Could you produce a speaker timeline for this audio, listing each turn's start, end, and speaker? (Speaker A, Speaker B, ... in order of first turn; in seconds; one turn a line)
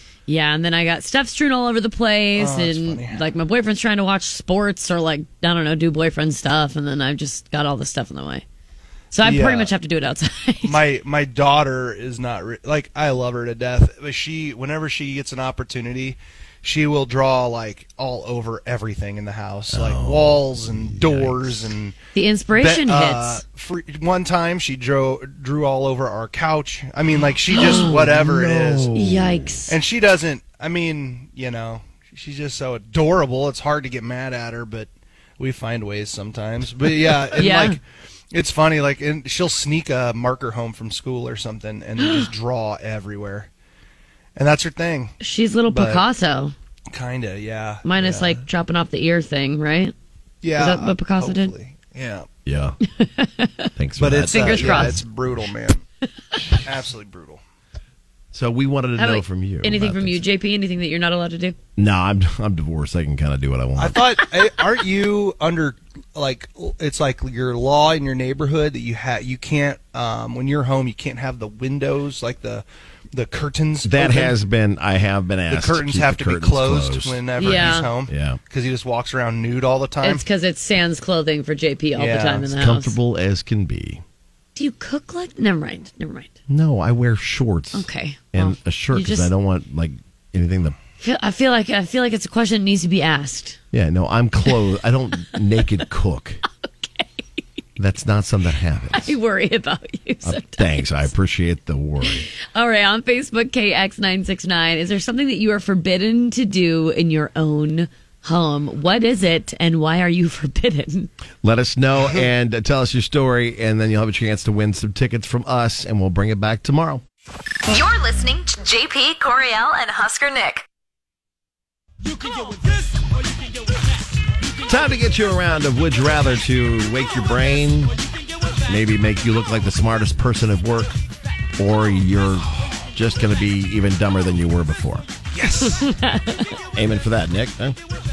Speaker A: 0.3-8.4
Speaker B: 2.4-3.2
Speaker A: 9.1-10.8
Speaker B: 9.2-9.7
Speaker B: 10.6-21.9
Speaker C: 19.7-21.7
Speaker A: 22.1-23.4
Speaker B: 22.5-28.9
Speaker A: 27.5-28.0
Speaker C: 27.5-29.6
Speaker A: 28.9-29.7
Speaker B: 29.7-37.8
Speaker A: 37.3-37.8
Speaker B: 38.3-43.5
Speaker B: 44.4-45.1
Speaker A: 45.2-46.5
Speaker B: 45.7-46.0
Speaker B: 46.9-48.4
Speaker A: 47.8-49.9
Speaker B: 50.4-52.3
Speaker A: 50.6-51.5
Speaker C: 52.5-52.8
Speaker A: 52.9-53.7
Speaker C: 53.8-55.0
Speaker B: 54.0-55.8
Speaker A: 54.3-55.0
Speaker B: 56.6-57.4
Speaker C: 58.3-60.2
Speaker A: 59.0-61.5
Speaker C: 61.8-64.0
Speaker B: 63.8-74.3
Speaker C: 73.8-78.4
Speaker B: 75.5-80.2
Speaker A: 77.4-77.9
Speaker A: 80.0-83.0
Speaker B: 81.9-82.5
Speaker C: 82.5-84.0
Speaker A: 84.5-86.3
Speaker C: 86.5-90.8
Speaker A: 87.7-89.3
Speaker A: 91.0-93.6
Speaker C: 93.7-96.4
Speaker A: 96.6-97.2
Speaker C: 97.8-99.1
Speaker A: 98.9-101.1
Speaker C: 100.2-102.3
Speaker A: 102.0-111.1
Speaker C: 111.4-117.0
Speaker D: 117.7-120.6
Speaker C: 124.7-127.9
Speaker C: 128.7-130.9
Speaker C: 131.6-135.1
Speaker B: 135.3-135.9
Speaker A: 135.6-136.5
Speaker C: 136.7-137.8